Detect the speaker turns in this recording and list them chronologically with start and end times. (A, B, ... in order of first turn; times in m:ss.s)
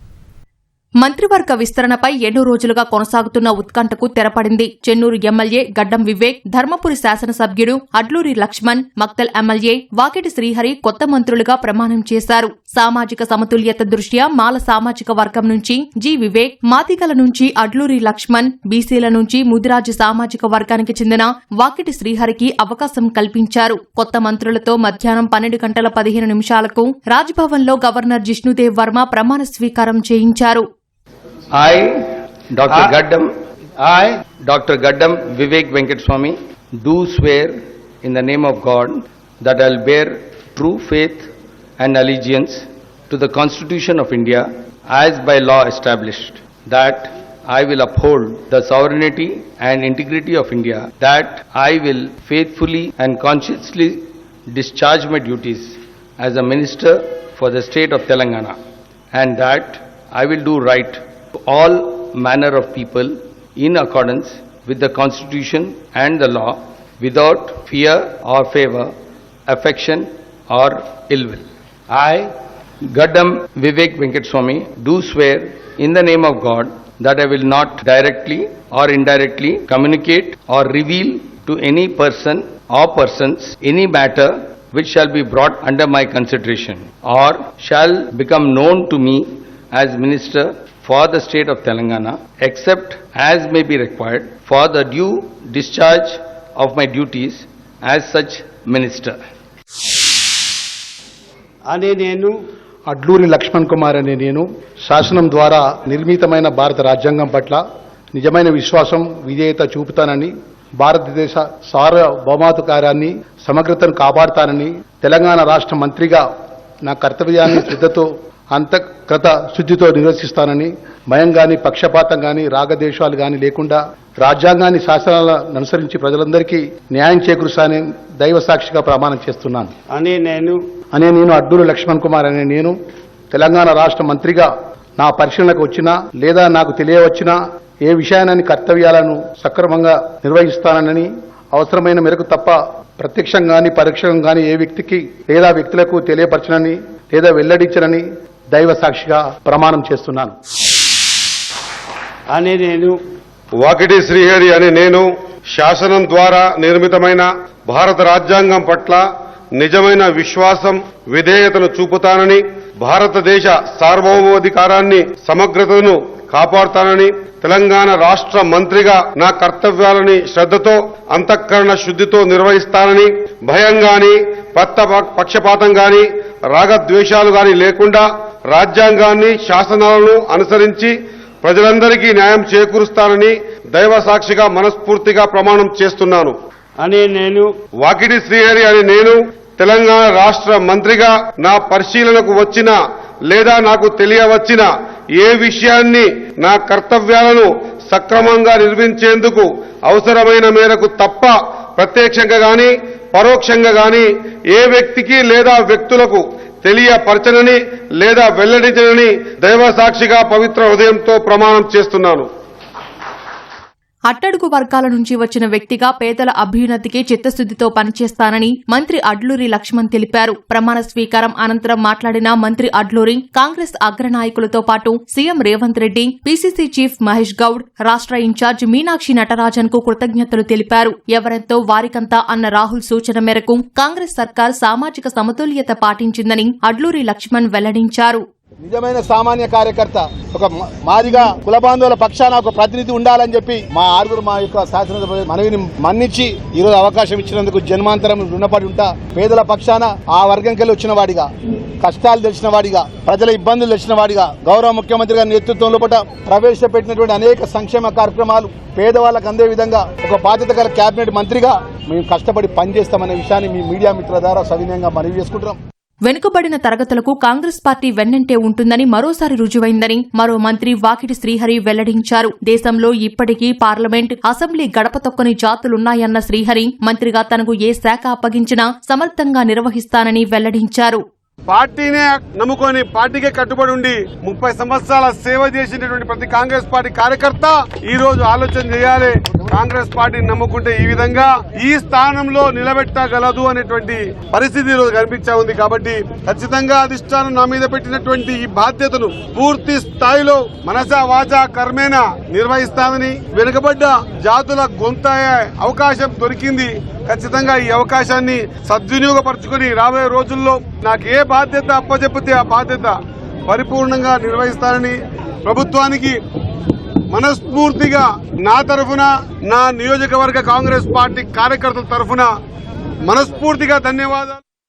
0:01.0-0:30.6 A
0:31.5-0:58.6 B
0:59.1-1:08.9 B
1:09.5-1:12.3 B
1:12.9-1:39.2 B
1:41.6-1:42.4 C
1:42.9-1:47.6 D
1:48.1-1:56.3 D
1:56.8-2:09.7 D
2:09.9-2:10.6 C
2:10.9-2:12.8 D
2:13.3-2:30.3 D
2:32.3-2:33.0 C
2:33.6-2:39.0 E
2:39.6-3:06.3 E
3:06.8-3:07.5 C
3:07.8-3:32.3 E
3:34.1-3:58.2 A
3:58.6-4:11.3 D
4:11.8-4:25.6 D
4:26.0-4:41.0 A
4:41.5-5:12.9 E
5:13.5-5:16.1 E
5:17.1-5:22.3 E
5:23.1-5:24.4 E